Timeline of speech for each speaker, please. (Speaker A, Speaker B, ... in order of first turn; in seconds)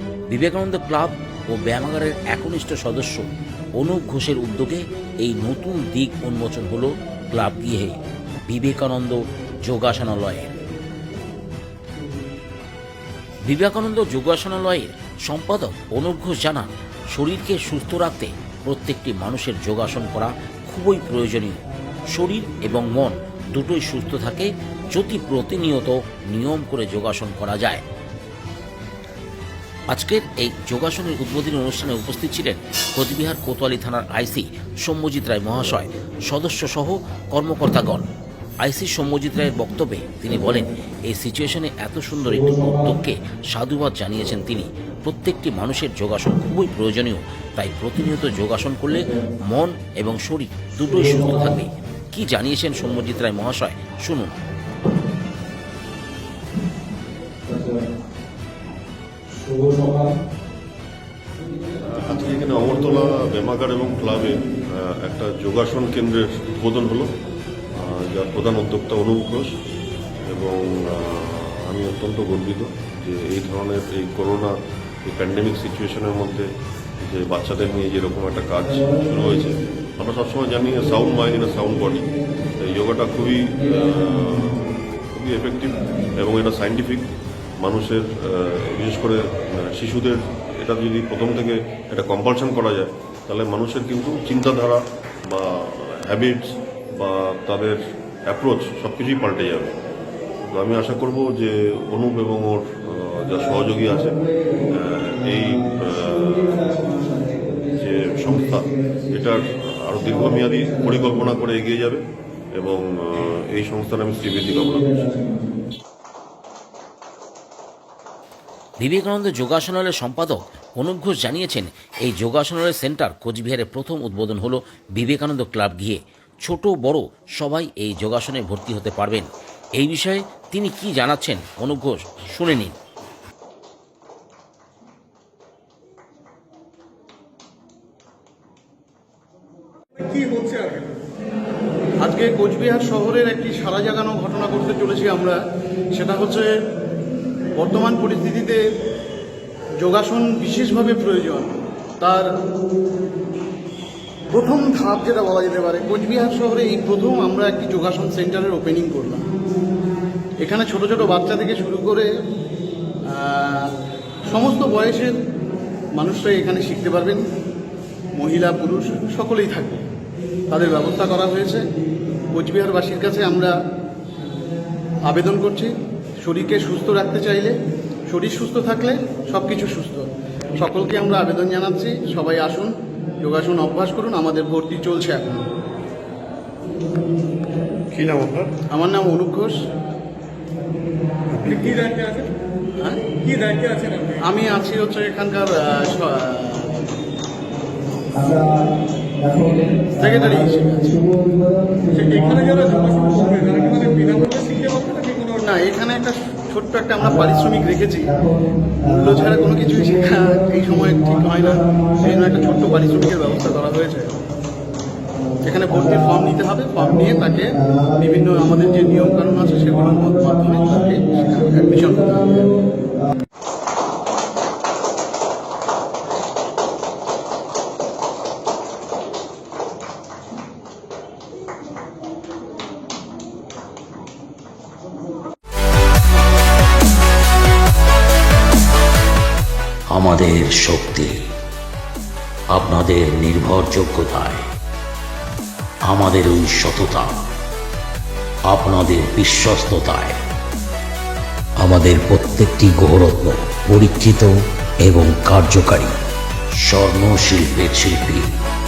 Speaker A: 0.3-3.2, 3.8-10.5, 13.4-27.8, 29.9-38.1, 38.6-54.3, 118.8-132.7, 239.9-241.2, 242.5-244.5, 245.8-247.1, 248.5-250.2, 251.6-255.9, 256.6-258.3
Speaker B: 59.5-60.0, 140.0-140.9, 191.5-192.3, 193.2-194.2, 199.2-199.8, 201.2-205.3
Speaker C: 61.8-67.1, 67.8-69.5, 70.3-76.5, 77.0-87.1, 87.6-99.8, 100.5-106.8, 107.7-112.0, 112.5-115.2, 187.9-188.5
Speaker D: 142.0-145.4, 145.9-146.6, 147.6-148.6, 149.8-152.3, 154.3-159.2, 160.4-162.1, 163.1-163.7, 164.3-165.1, 165.9-167.2, 168.1-169.8, 170.5-171.6, 172.3-173.5, 175.1-177.5, 178.1-185.4, 188.6-189.5, 192.8-193.2, 194.2-196.7, 199.9-201.0, 205.2-214.2, 215.4-222.5